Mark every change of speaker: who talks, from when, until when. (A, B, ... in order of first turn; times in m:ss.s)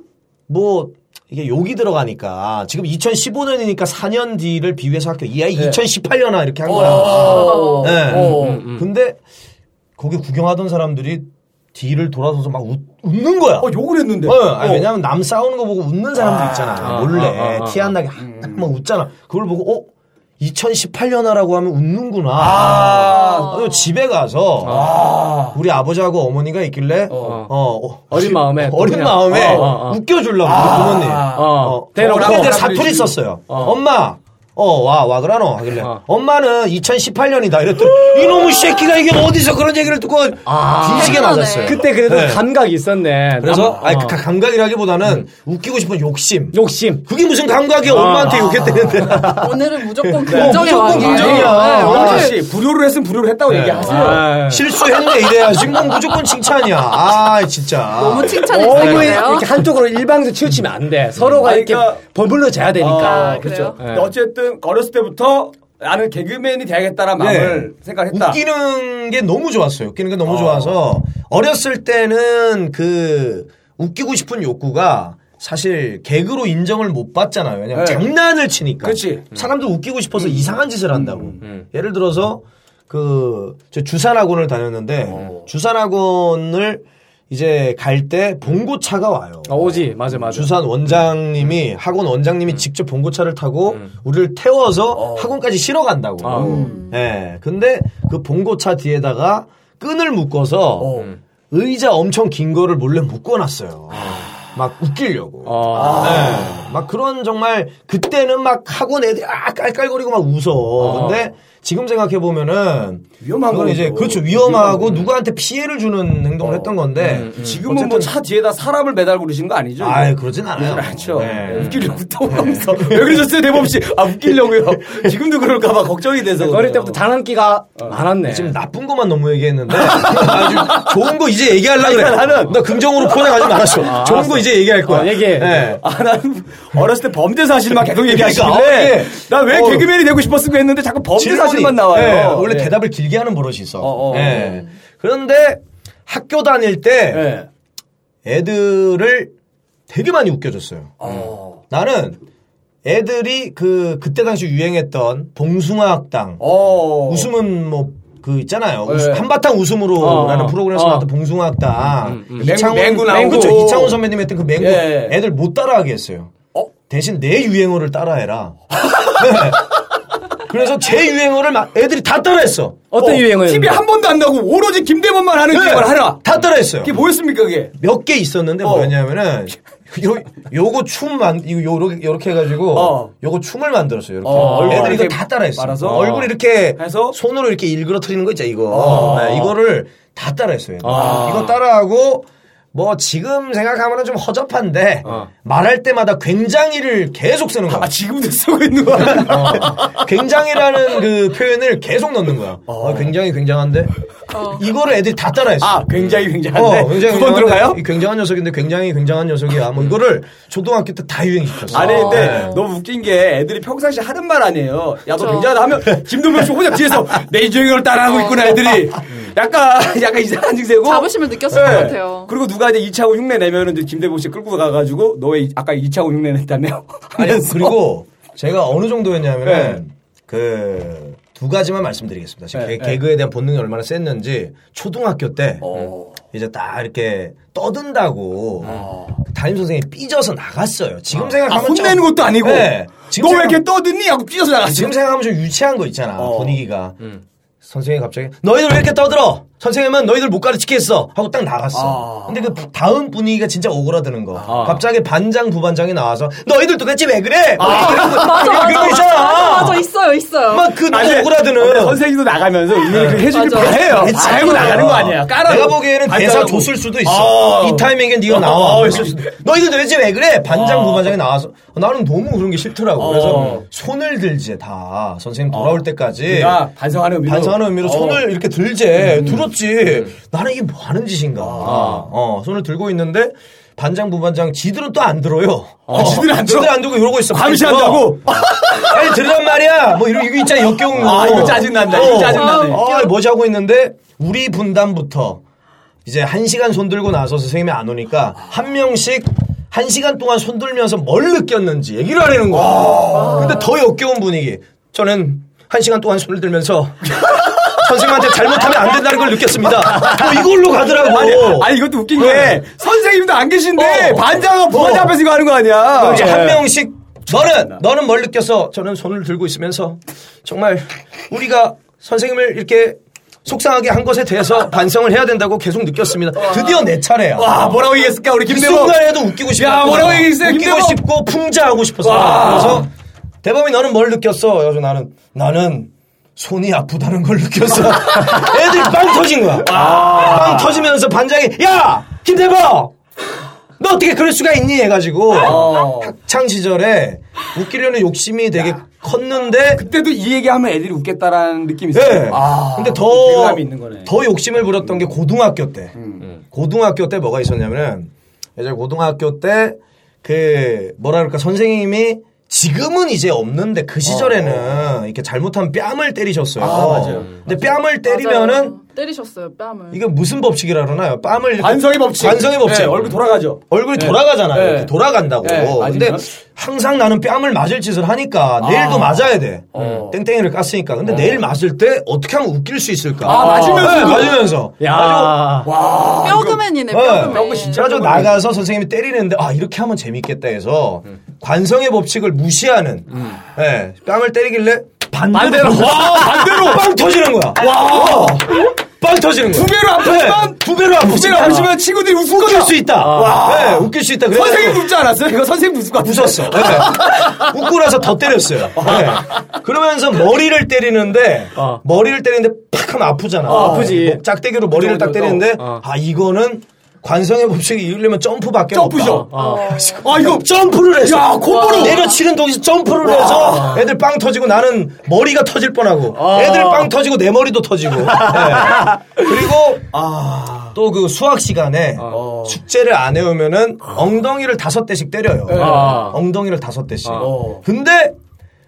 0:00.5-0:09.2 A
0:06.6-0:08.6 B
0:07.2-0:08.0 C
0:08.1-0:08.9 D
0:10.0-0:13.7 A
0:13.6-0:14.9 B
0:14.2-0:19.9 A
0:16.2-0:17.0 B
0:16.8-0:17.9 D
0:18.2-0:18.6 B
0:20.4-0:42.5 A
0:22.4-0:23.6 B
0:23.0-0:23.9 C
0:24.6-0:25.0 D
0:24.6-0:25.6 B
0:27.1-0:27.4 B
0:27.2-0:27.5 D
0:28.1-0:30.0 D
0:29.2-0:29.8 B
0:30.4-0:33.2 B
0:31.3-0:32.7 D
0:33.5-0:33.8 D
0:40.4-0:44.2 D
0:40.9-0:41.8 C
0:43.4-0:52.4 A
0:43.4-0:43.8 B
0:46.5-0:47.0 D
0:47.8-0:49.4 D
0:48.6-0:49.1 B
0:49.2-0:52.4 C
0:50.2-0:54.3 B
0:53.5-0:59.2 A
0:53.8-0:54.7 D
0:57.9-0:59.5 C
0:58.4-1:04.1 D
1:01.3-1:02.0 B
1:02.8-1:08.4 B
1:03.0-1:03.8 C
1:07.2-1:58.1 A
1:10.3-1:10.7 B
1:17.7-1:18.1 B
1:18.8-1:19.3 B
1:20.2-1:21.4 B
1:25.1-1:25.4 B
1:29.5-1:30.5 D
1:34.9-1:35.4 B
1:36.2-1:36.6 D
1:36.3-1:36.8 B
1:36.3-1:37.0 C
1:40.8-1:41.1 B
1:43.9-1:44.4 B
1:45.4-1:46.4 D
1:45.7-1:46.6 B
1:50.8-1:51.3 D
1:53.2-1:55.1 B
1:56.4-2:07.0 B
1:57.0-1:57.6 D
1:59.8-2:03.2 A
2:06.4-2:08.5 D
2:08.2-2:15.8 A
2:09.9-2:10.9 B
2:11.8-2:14.2 B
2:13.8-2:15.7 D
2:15.8-2:22.7 B
2:17.8-2:19.9 A
2:21.2-2:27.3 A
2:23.8-2:24.6 B
2:27.1-2:27.5 B
2:28.2-2:29.3 A
2:29.9-2:32.2 A
2:31.0-2:31.6 B
2:32.8-2:46.3 A
2:36.4-2:37.3 B
2:38.8-2:39.2 B
2:40.0-2:41.1 D
2:42.0-2:43.7 D
2:42.4-2:44.0 B
2:44.6-2:45.2 B
2:46.9-2:48.6 A
2:48.8-2:49.5 B
2:49.1-2:49.8 A
2:50.3-2:52.8 A
2:52.9-2:53.8 D
2:53.0-2:57.8 B
2:55.5-2:57.0 A
2:57.8-3:17.9 A
2:58.6-2:58.9 B
3:02.7-3:03.1 B
3:04.2-3:07.2 B
3:04.3-3:05.1 D
3:08.7-3:09.5 B
3:10.8-3:11.5 D
3:10.9-3:11.5 B
3:17.7-3:20.0 B
3:19.0-3:23.9 A
3:22.7-3:23.1 B
3:24.3-3:24.6 C
3:24.4-3:32.6 A
3:25.6-3:27.8 B
3:31.7-3:47.8 B
3:31.7-3:32.6 C
3:35.2-3:35.5 C
3:40.8-3:42.3 C
3:47.2-4:03.6 A
3:49.4-3:49.8 B
3:52.5-3:53.0 B
3:55.6-3:56.1 B
3:58.6-3:59.1 B
4:01.2-4:05.0 B
4:04.7-4:07.1 A
4:06.2-4:06.6 B
4:07.6-4:19.8 A
4:11.7-4:12.5 B
4:14.4-4:14.8 B
4:14.5-4:14.8 D
4:17.6-4:19.0 B
4:17.6-4:20.7 C
4:20.5-4:22.0 A
4:20.9-4:29.3 B
4:22.9-4:36.6 A
4:23.3-4:24.9 C
4:30.5-4:31.1 B
4:33.0-4:33.6 B
4:35.5-4:38.2 B
4:37.2-4:55.4 A
4:39.0-4:39.4 B
4:41.4-4:42.0 B
4:41.6-4:42.0 D
4:45.9-4:49.1 B
4:50.9-4:52.8 B
4:51.8-4:53.1 C
4:56.0-5:12.6 A
5:02.5-5:03.7 B
5:03.1-5:03.7 C
5:07.2-5:07.5 B
5:10.0-5:10.3 B
5:10.9-5:16.3 B
5:13.8-5:15.2 A
5:16.0-5:16.6 D
5:16.0-5:27.8 A
5:26.4-5:26.8 B
5:27.4-5:31.0 B
5:28.4-5:32.9 A
5:32.0-5:32.9 B
5:33.4-5:42.9 A
5:39.6-5:40.9 B
5:43.8-5:49.8 A
5:45.4-5:46.1 B
5:49.7-5:54.1 B
5:51.9-6:08.8 A
5:56.0-5:56.3 B
6:04.0-6:04.9 B
6:06.6-6:07.5 B
6:08.0-6:10.0 C
6:09.9-6:13.2 A
6:11.6-6:16.2 B
6:13.7-6:25.5 A
6:18.6-6:20.2 B
6:21.0-6:21.4 B
6:23.2-6:24.5 B
6:23.2-6:25.7 D
6:25.6-6:28.5 B
6:26.2-6:28.2 C
6:26.9-6:44.9 A
6:35.3-6:36.4 D
6:35.8-6:36.9 B
6:37.5-6:38.7 B
6:39.5-6:47.5 B
6:43.0-6:43.5 D
6:46.0-7:09.9 A
6:48.8-6:49.4 B
6:51.6-6:51.8 D
6:53.4-6:54.1 B
6:53.4-6:54.2 D
6:54.7-6:55.5 B
6:55.6-6:55.8 D
6:58.7-6:59.4 B
6:59.3-6:59.8 D
6:59.3-7:00.1 C
7:00.0-7:00.4 B
7:01.0-7:02.1 B
7:01.4-7:02.2 C
7:03.0-7:03.8 B
7:03.5-7:03.8 D
7:06.1-7:06.9 D
7:08.2-7:09.0 D
7:09.9-7:10.7 B
7:10.7-7:18.1 A
7:12.1-7:12.6 B
7:15.5-7:16.1 B
7:15.5-7:16.2 D
7:17.2-7:17.6 B